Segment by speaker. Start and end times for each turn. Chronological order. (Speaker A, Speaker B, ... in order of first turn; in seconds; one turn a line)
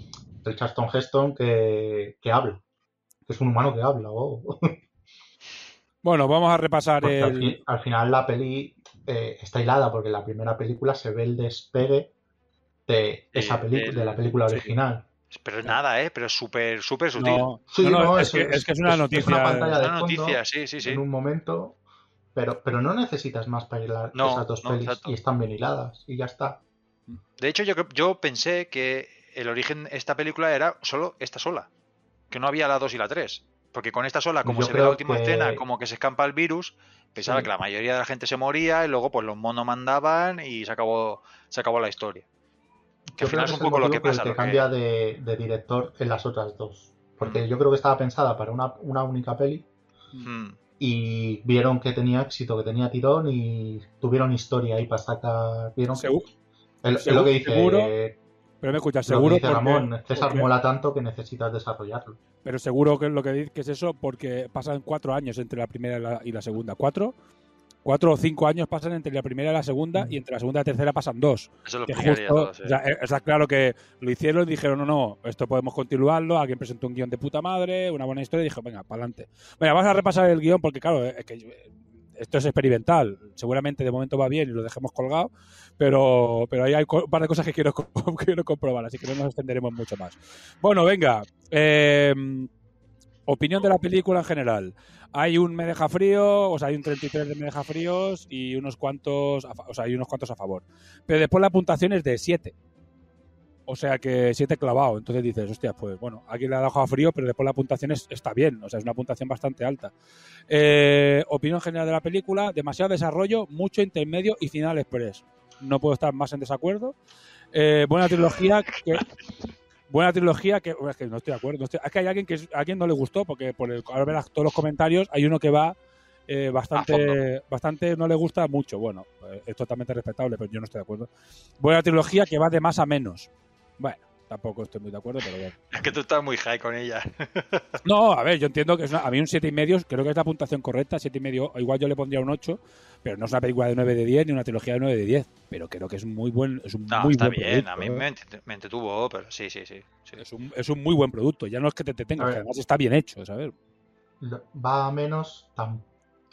Speaker A: 0.4-2.6
Speaker A: 3.3-4.8
Speaker B: 6.0-7.6
Speaker A: 7.0-12.1
Speaker A: 12.9-15.1
Speaker C: 13.3-14.7
Speaker C: 15.3-17.5
Speaker B: 17.2-19.8
Speaker A: 17.7-21.8
Speaker C: 19.2-21.0
Speaker A: 22.4-26.6
Speaker C: 24.1-25.1
Speaker C: 27.4-31.7
Speaker C: 32.3-42.2
Speaker A: 34.4-35.6
Speaker A: 37.2-37.5
Speaker A: 43.1-49.7
Speaker C: 43.2-44.7
Speaker C: 50.2-50.6
Speaker A: 50.8-56.2
Speaker B: 55.9-56.3
Speaker A: 56.8-58.2
Speaker B: 57.0-57.9
Speaker B: 58.6-60.5
Speaker A: 59.1-62.2
Speaker B: 62.5-67.1
Speaker B: 67.8-92.5
Speaker C: 71.7-72.8
Speaker B: 93.3-102.5
Speaker B: 103.7-109.9
Speaker B: 110.5-117.0
Speaker B: 117.5-119.1
Speaker C: 118.4-119.0
Speaker B: 119.9-125.8
Speaker B: 126.3-131.1
Speaker C: 126.8-127.2
Speaker B: 131.6-135.6
Speaker C: 135.7-137.7
Speaker B: 137.8-148.1
Speaker C: 146.9-150.2
Speaker B: 150.2-153.5
Speaker A: 154.2-155.9